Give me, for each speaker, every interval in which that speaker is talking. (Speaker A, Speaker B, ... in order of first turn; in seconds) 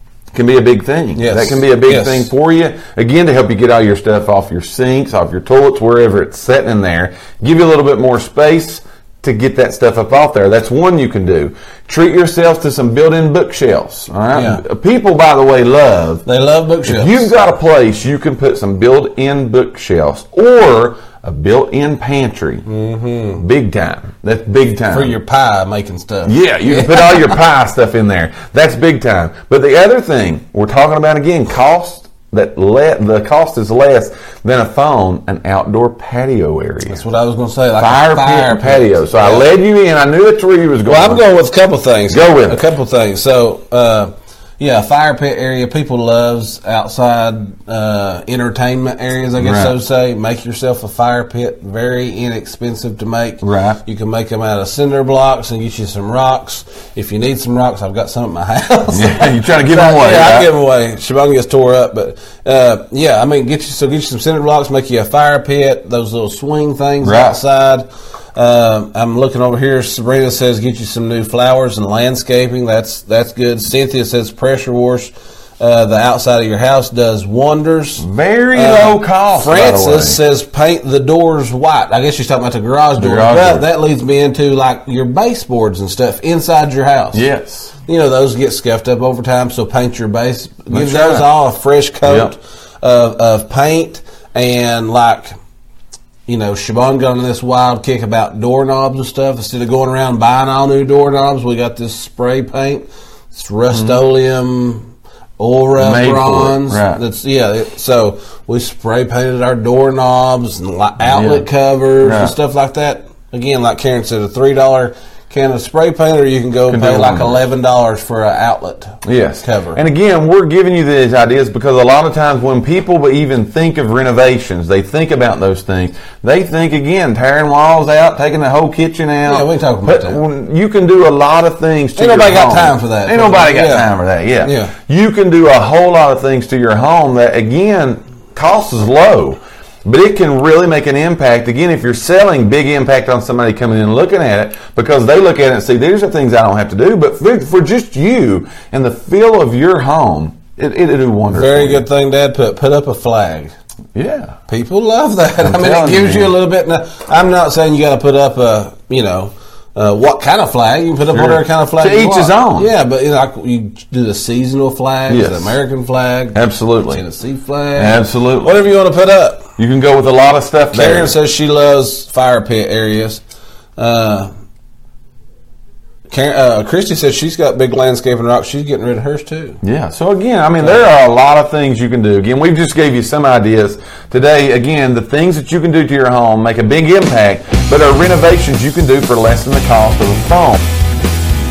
Speaker A: 0.3-16.2, 16.9-22.7, 23.4-25.1, 26.3-37.0, 37.8-41.2, 42.1-42.6, 49.4-49.7, 53.4-53.8, 58.9-60.5, 67.0-67.4, 78.0-80.2, 83.0-83.7, 87.1-87.8, 90.7-91.3, 92.0-92.3, 103.7-104.0, 105.8-107.0, 111.1-111.5, 112.0-112.3, 116.7-117.4, 119.0-151.8, 153.9-154.4, 155.4-156.4, 161.1-162.7, 165.1-165.6, 166.3-167.0, 167.8-168.6, 169.6-171.1, 179.6-190.7
Speaker B: 1.2-2.3, 14.3-14.6, 16.2-17.3, 22.7-23.4, 24.9-27.4, 36.9-39.5, 40.9-87.2, 87.9-95.3, 96.3-119.8, 129.2-130.2, 132.0-133.9, 134.4-134.7, 151.3-153.5, 154.5-169.5, 170.7-173.2, 173.8-174.3, 176.1-179.6